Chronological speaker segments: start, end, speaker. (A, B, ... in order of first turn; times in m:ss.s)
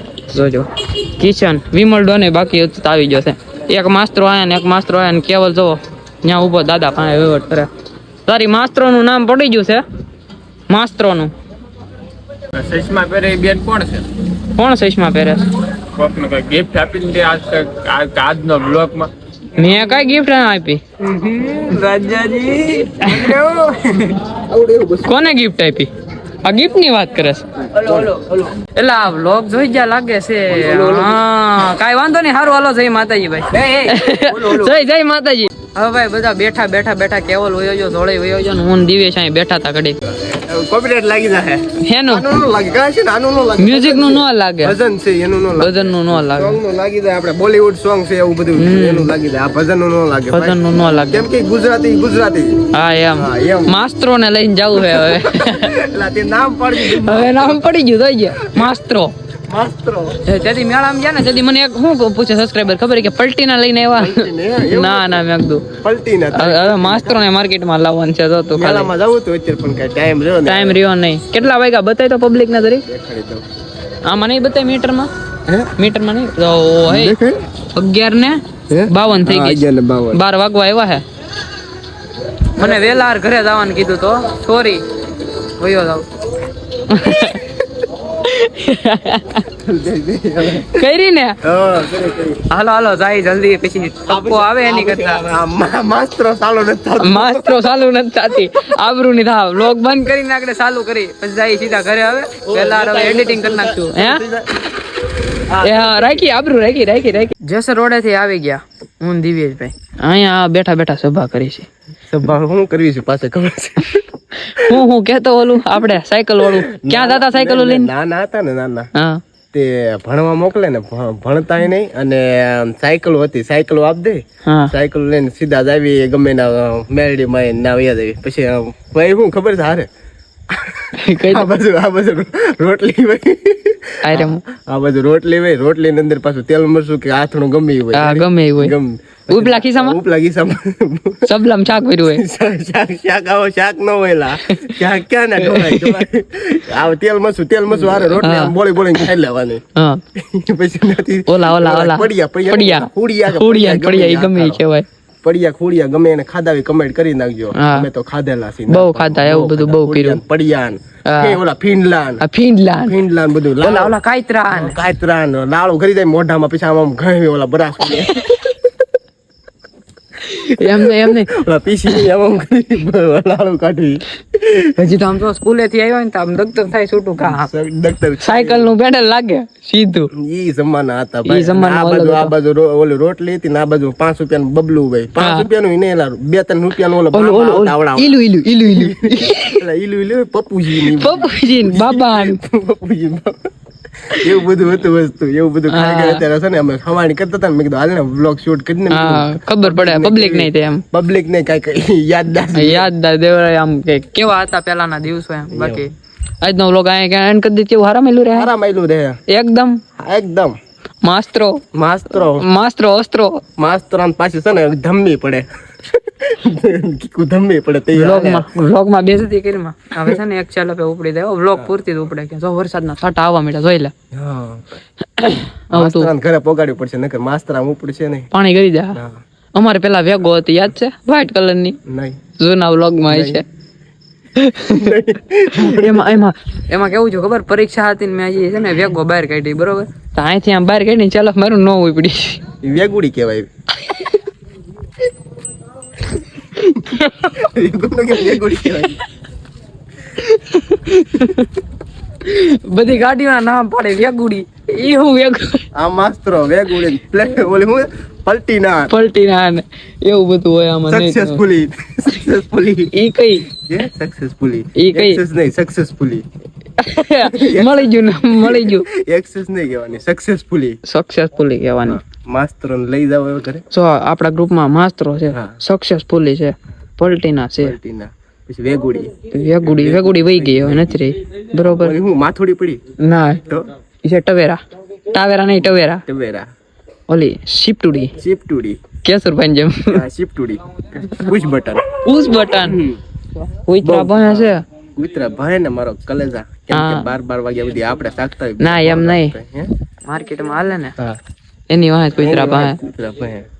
0:00.3-0:07.7 A
0:08.2-0:09.8 A
0:10.7-0:11.3 A
0:12.5-0:14.1 B
0:14.5-0:15.5 A
0:15.9-0:19.1 B
0:19.6-0:20.8 A
0:21.0-0:25.2 C
0:23.0-0:23.3 A
0:25.0-0:25.9 A
0:26.4-0:27.5 A
0:27.7-0:28.5 C
0:28.6-0:40.0 A
0:30.5-0:31.2 C
0:33.5-0:34.8 C
0:40.1-0:50.6 C
0:41.8-0:42.3 A
0:43.6-0:44.8 A
0:45.6-0:46.6 A
0:48.6-0:49.1 A
0:50.3-0:51.3 A
0:51.1-0:52.6 C
0:52.7-0:55.7 A
0:53.2-0:53.8 C
0:54.7-0:57.7 C
0:56.8-0:59.1 A
0:58.4-0:58.7 C
0:59.5-1:00.2 C
1:00.2-1:05.6 A
1:04.0-1:05.2 C
1:05.8-1:07.2 C
1:06.3-1:08.9 A
1:08.5-1:10.8 C
1:10.4-1:12.8 A
1:12.9-1:13.4 C
1:14.1-1:15.1 A
1:15.8-1:17.2 A
1:16.9-1:17.4 C
1:17.7-1:21.0 A
1:18.7-1:20.2 C
1:22.6-1:24.8 A
1:25.6-1:26.0 A
1:26.9-1:27.4 A
1:27.2-1:27.6 C
1:28.2-1:29.4 A
1:29.5-1:30.8 C
1:30.6-1:31.4 A
1:31.4-1:32.4 C
1:32.5-1:35.2 A
1:34.1-1:37.7 C
1:37.0-1:44.2 A
1:42.5-1:44.5 C
1:45.5-1:46.2 C
1:45.6-1:51.7 A
1:52.1-1:54.0 C
1:54.4-1:57.9 A
1:56.4-1:58.9 C
1:58.9-1:59.2 A
1:59.5-2:09.9 C
2:04.4-2:04.7 A
2:10.5-2:29.6 C
2:11.0-2:11.5 A
2:14.0-2:14.4 A
2:17.9-2:18.8 A
2:19.3-2:20.0 A
2:21.2-2:22.2 A
2:25.4-2:26.0 A
2:27.8-2:28.5 A
2:29.8-2:30.0 A
2:30.2-2:34.6 C
2:31.3-2:34.9 A
2:35.2-2:42.2 C
2:37.6-2:37.9 A
2:38.7-2:40.2 A
2:41.1-2:41.4 A
2:42.2-2:43.0 A
2:42.8-2:43.9 C
2:43.6-2:44.8 A
2:44.5-2:48.7 C
2:50.2-2:52.0 A
2:50.6-2:54.6 C
2:54.7-2:57.5 A
2:57.2-2:58.7 C
2:58.2-3:00.1 A
3:00.2-3:13.4 C
3:01.2-3:02.3 A
3:05.2-3:05.5 A
3:07.1-3:09.6 A
3:10.8-3:12.4 A
3:14.1-3:22.9 C
3:15.7-3:16.2 A
3:18.9-3:20.8 A
3:22.5-3:28.5 A
3:25.5-3:25.8 C
3:28.3-3:29.2 C
3:29.3-3:29.8 A
3:30.0-3:30.6 C
3:31.0-3:31.6 A
3:31.7-3:32.4 C
3:32.2-3:33.4 A
3:33.6-3:38.5 C
3:38.0-3:43.9 A
3:44.1-3:44.8 C
3:45.2-3:46.1 A
3:45.7-3:48.3 C
3:48.3-3:49.0 A
3:48.9-3:49.2 C
3:49.5-3:51.8 A
3:51.8-3:52.2 C
3:52.4-3:53.4 A
3:53.1-3:53.4 C
3:54.4-3:55.0 A
3:54.7-3:56.2 C
3:55.5-4:02.4 A
4:02.6-4:03.5 C
4:03.9-4:04.2 A
4:06.4-4:07.3 A
4:07.3-4:09.0 C
4:10.2-4:11.5 A
4:12.2-4:15.7 A
4:15.8-4:18.9 C
4:18.9-4:21.4 A
4:20.9-4:22.9 C
4:22.9-4:23.5 A
4:23.4-4:26.2 C
4:24.8-4:25.2 A
4:26.8-4:28.9 A
4:27.2-4:30.8 C
4:30.8-4:32.0 A
4:31.8-4:33.6 C
4:33.7-4:37.8 A
4:37.6-4:41.1 C
4:39.3-4:42.0 A
4:41.8-4:42.8 C
4:43.0-4:43.4 A
4:44.0-4:46.0 A
4:46.0-4:46.5 C
4:47.1-4:48.1 A
4:48.2-4:48.8 C
4:49.0-4:50.0 A
4:49.9-4:51.8 C
4:52.0-4:52.8 A
4:52.6-4:53.0 C
4:53.4-4:54.6 A
4:53.8-4:59.7 C
4:56.7-4:57.1 A
4:58.6-4:59.4 A
5:00.0-5:01.0 A
5:01.7-5:02.8 A
5:02.2-5:03.4 C